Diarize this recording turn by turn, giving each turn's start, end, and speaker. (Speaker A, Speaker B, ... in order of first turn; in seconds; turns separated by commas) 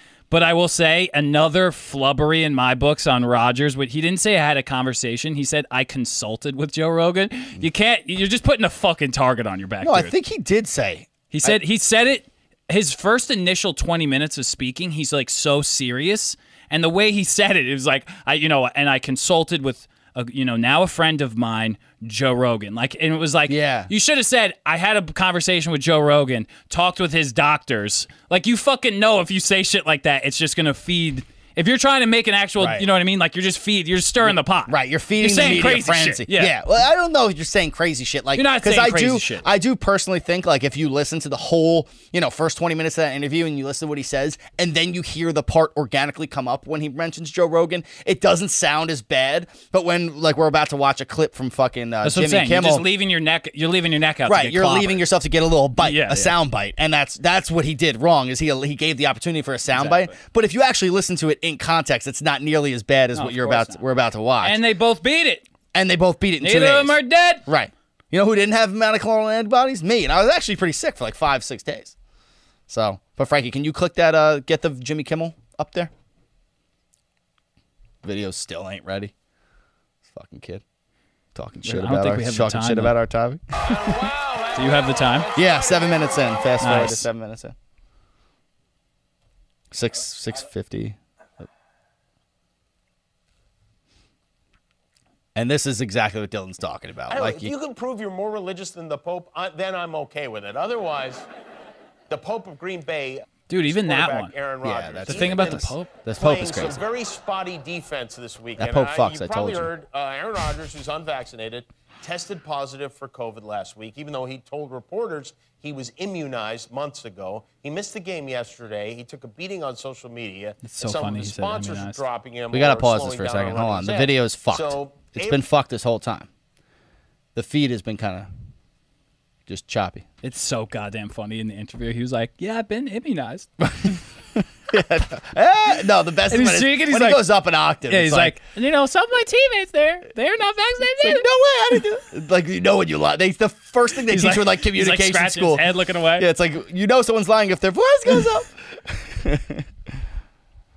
Speaker A: 0.3-10.1, Speaker B: 9.8-11.6, Speaker A: 11.3-36.5, Speaker B: 23.5-23.9, Speaker B: 32.6-32.8, Speaker B: 34.2-52.9, Speaker A: 38.4-39.5, Speaker A: 52.0-55.0, Speaker B: 54.3-64.6, Speaker A: 55.8-56.3, Speaker A: 59.7-60.1, Speaker A: 63.1-63.8, Speaker A: 64.4-65.4, Speaker B: 65.7-71.9, Speaker A: 66.4-67.4, Speaker B: 72.7-75.9, Speaker B: 78.0-79.1, Speaker B: 80.0-80.6, Speaker B: 81.3-83.9, Speaker A: 81.6-82.9, Speaker C: 83.6-86.7, Speaker A: 84.5-85.3, Speaker B: 85.3-87.5, Speaker A: 86.6-87.1, Speaker B: 89.7-91.0, Speaker B: 95.3-97.5, Speaker C: 97.1-101.2, Speaker C: 102.1-125.4, Speaker A: 103.5-104.3, Speaker B: 104.6-106.8, Speaker A: 105.0-105.9, Speaker B: 108.6-109.7, Speaker A: 120.6-122.0, Speaker B: 122.5-126.3, Speaker B: 127.3-128.3, Speaker B: 129.5-130.1, Speaker A: 130.2-133.5, Speaker B: 133.6-138.4, Speaker A: 136.3-137.2, Speaker A: 137.9-141.2, Speaker B: 141.0-145.6, Speaker A: 144.1-146.3, Speaker B: 146.2-149.6